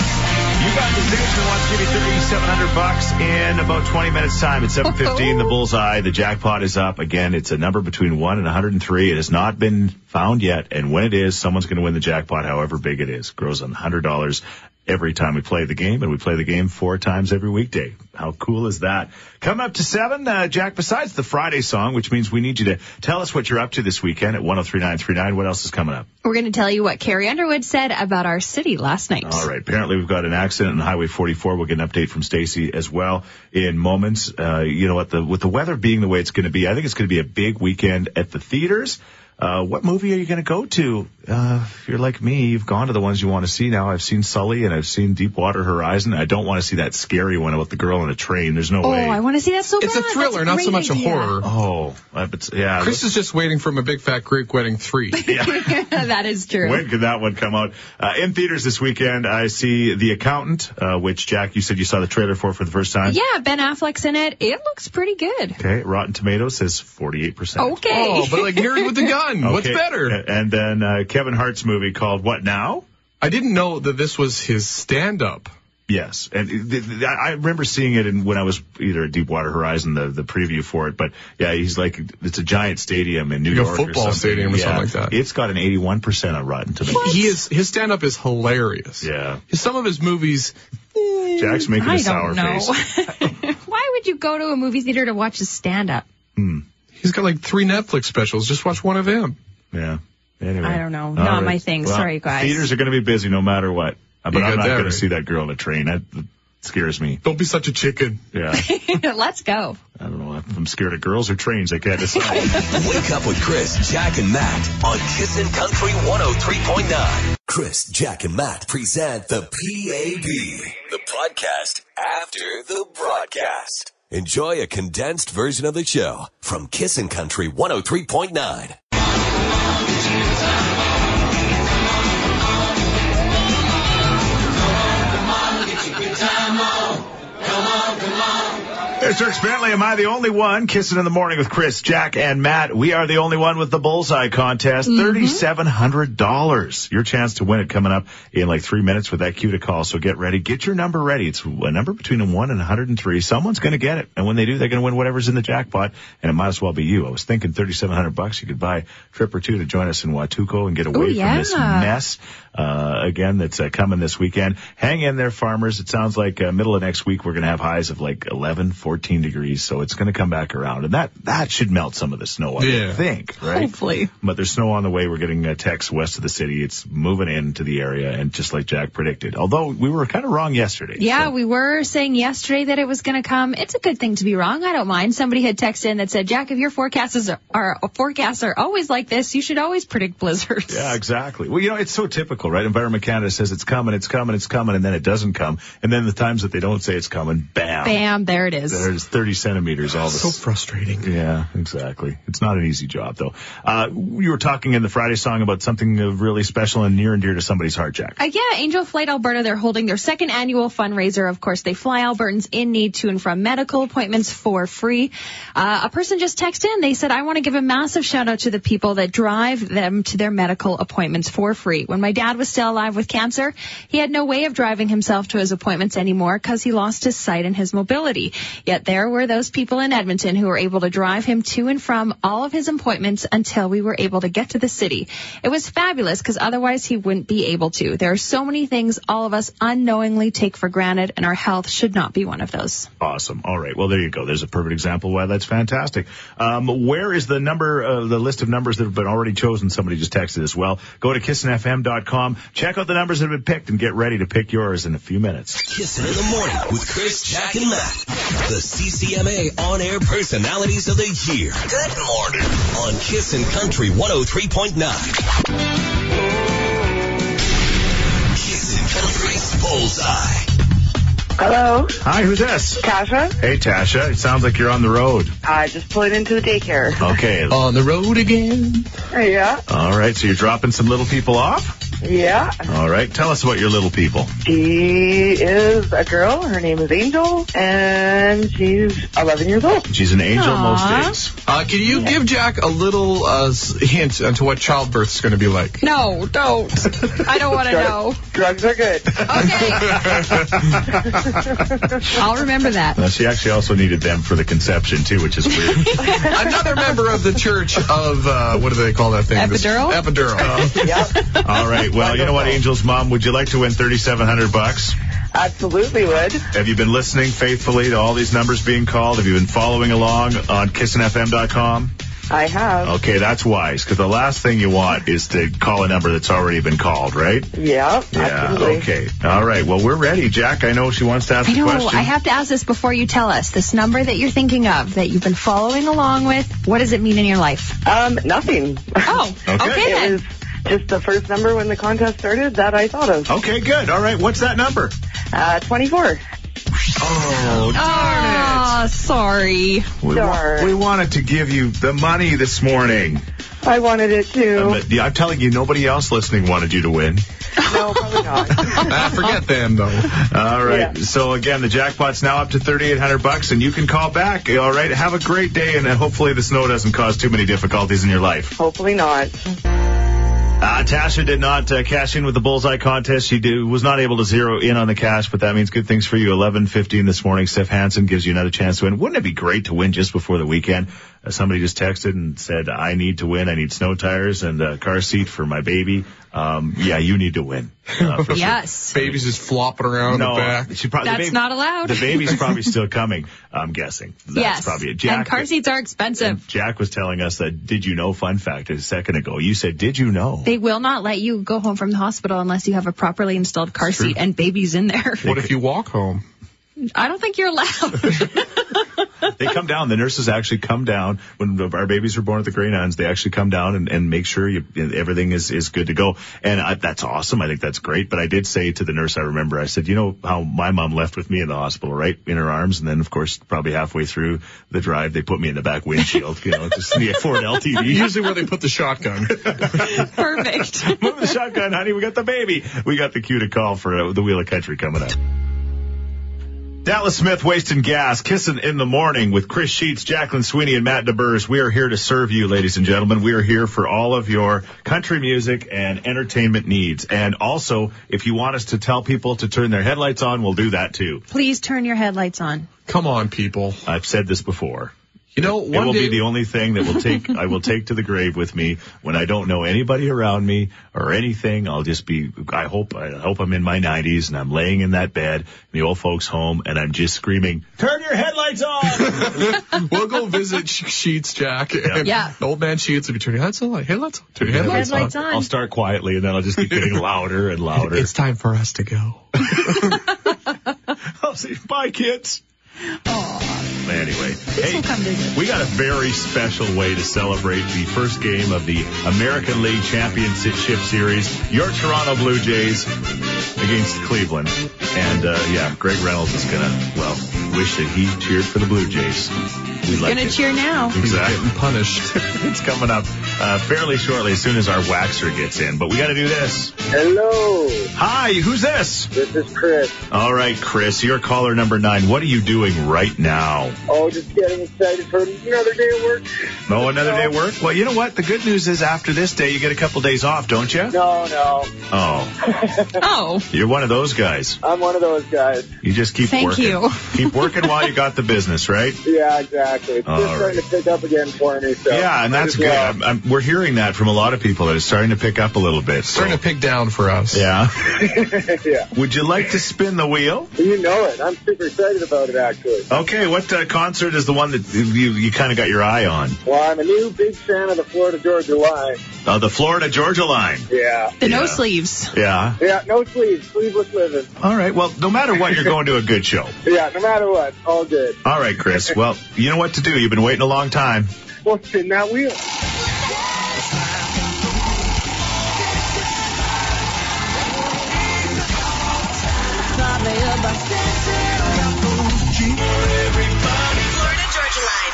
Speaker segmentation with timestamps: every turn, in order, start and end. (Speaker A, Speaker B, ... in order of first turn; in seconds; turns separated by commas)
Speaker A: 0.6-26.1, Speaker B: 4.8-5.5, Speaker B: 26.2-29.5, Speaker A: 29.2-49.2, Speaker B: 48.8-51.4, Speaker C: 49.8-51.5, Speaker A: 51.4-53.0, Speaker C: 52.8-55.2, Speaker B: 55.1-56.9, Speaker A: 55.3-55.8, Speaker A: 56.6-63.2, Speaker B: 63.0-65.6, Speaker A: 65.6-67.8, Speaker B: 67.6-69.1, Speaker C: 67.8-70.2, Speaker A: 69.4-72.8, Speaker C: 73.2-75.5, Speaker A: 75.9-87.1, Speaker C: 83.5-85.1, Speaker B: 86.9-87.3, Speaker C: 87.0-90.5, Speaker A: 89.0-89.4, Speaker B: 91.0-96.0, Speaker A: 91.3-92.7, Speaker A: 96.3-96.7, Speaker C: 97.0-99.4, Speaker A: 99.7-107.2, Speaker B: 100.6-102.7, Speaker C: 104.3-105.0, Speaker C: 107.2-108.2, Speaker A: 108.3-108.7, Speaker B: 108.5-109.8, Speaker A: 110.0-112.7, Speaker B: 112.2-112.8, Speaker D: 112.7-128.8, Speaker A: 139.0-181.3, Speaker B: 144.9-145.4, Speaker B: 160.9-161.9, Speaker C: 172.6-173.0, Speaker B: 173.4-174.1, Speaker B: 181.0-191.0, Speaker A: 190.7-198.0, Speaker B: 197.8-198.9, Speaker A: 198.7-200.4, Speaker C: 200.1-201.1, Speaker A: 201.0-208.2, Speaker B: 208.2-242.9, Speaker A: 243.0-255.7, Speaker D: 255.6-265.2, Speaker D: 268.3-270.5, Speaker E: 271.4-272.0, Speaker A: 272.0-272.8, Speaker E: 272.8-273.4, Speaker A: 273.4-275.3, Speaker E: 275.4-277.1, Speaker A: 277.0-277.6, Speaker C: 277.5-278.9, Speaker E: 279.1-279.6, Speaker A: 279.7-281.8, Speaker E: 282.0-282.6, Speaker A: 282.7-284.3, Speaker E: 284.4-289.9, Speaker A: 289.9-291.3, Speaker B: 290.3-291.1, Speaker C: 291.4-295.8, Speaker B: 295.8-298.2, Speaker E: 297.7-299.5, Speaker B: 299.2-300.2, Speaker C: 299.9-300.7, Speaker A: 300.0-300.8, Speaker B: 302.0-303.0, Speaker A: 302.9-306.2, Speaker C: 306.2-310.8, Speaker B: 309.3-310.1, Speaker A: 310.4-310.8, Speaker E: 310.6-311.2, Speaker A: 311.4-315.0, Speaker E: 311.9-312.6, Speaker E: 315.3-316.4, Speaker A: 316.5-321.9, Speaker E: 322.3-322.9, Speaker A: 322.8-327.5, Speaker E: 327.5-328.8, Speaker A: 328.1-332.1, Speaker B: 331.4-337.8, Speaker E: 337.8-339.2, Speaker B: 339.0-340.2, Speaker A: 339.5-339.9, Speaker E: 339.7-343.3, Speaker A: 343.3-344.9, Speaker E: 345.3-346.2, Speaker A: 347.0-348.7, Speaker B: 347.7-349.9, Speaker A: 350.0-353.2, Speaker E: 350.1-350.7, Speaker E: 353.6-354.8, Speaker A: 354.5-357.2, Speaker E: 357.6-358.9, Speaker C: 358.7-360.2, Speaker A: 360.1-368.6, Speaker E: 360.6-360.9, Speaker E: 368.6-369.4, Speaker A: 370.6-389.2, Speaker C: 387.9-390.7, Speaker B: 388.3-388.9, Speaker A: 390.0-395.5, Speaker B: 391.0-392.4, Speaker B: 394.3-396.4, Speaker A: 396.2-400.5, Speaker B: 400.4-405.3, Speaker C: 405.2-406.2, Speaker A: 405.2-405.5, Speaker B: 406.9-408.6, Speaker A: 409.3-428.3, Speaker C: 427.7-430.0, Speaker B: 429.8-431.1, Speaker A: 430.7-435.2, Speaker A: 436.8-451.2, Speaker B: 451.3-452.7, Speaker C: 452.9-453.8, Speaker A: 453.9-469.6, Speaker C: 455.3-456.3, Speaker C: 469.0-475.2, Speaker A: 471.8-472.1, Speaker B: 472.0-472.3, Speaker A: 474.4-478.1, Speaker B: 474.6-475.5, Speaker C: 477.8-480.0, Speaker A: 481.2-482.4, Speaker B: 483.1-483.7, Speaker A: 483.8-492.9, Speaker B: 484.5-485.4, Speaker A: 493.6-500.4, Speaker B: 499.9-500.9, Speaker A: 500.9-501.4, Speaker C: 501.0-502.1, Speaker A: 502.1-506.7, Speaker F: 506.9-507.9, Speaker A: 507.9-509.1, Speaker F: 509.1-510.0, Speaker A: 510.1-513.8, Speaker F: 513.9-517.3, Speaker A: 516.7-521.0, Speaker F: 520.9-521.7, Speaker A: 521.9-522.4, Speaker F: 522.4-523.0, Speaker B: 523.0-523.5, Speaker A: 523.5-524.6, Speaker F: 524.6-525.7, Speaker A: 525.8-529.0, Speaker B: 526.2-527.8, Speaker F: 529.0-533.0, Speaker A: 530.0-530.6, Speaker A: 531.9-536.4, Speaker C: 536.1-537.5, Speaker A: 537.3-537.9, Speaker F: 537.9-538.9, Speaker A: 538.9-540.5, Speaker F: 540.6-542.9, Speaker A: 542.9-546.4, Speaker F: 546.5-549.0, Speaker A: 549.2-550.7, Speaker F: 550.7-551.1, Speaker B: 551.2-552.1, Speaker A: 551.2-552.6, Speaker F: 552.6-554.3, Speaker A: 554.4-556.5, Speaker F: 556.6-558.2, Speaker A: 558.2-561.1, Speaker F: 561.4-562.4, Speaker G: 563.4-566.7, Speaker G: 567.8-574.4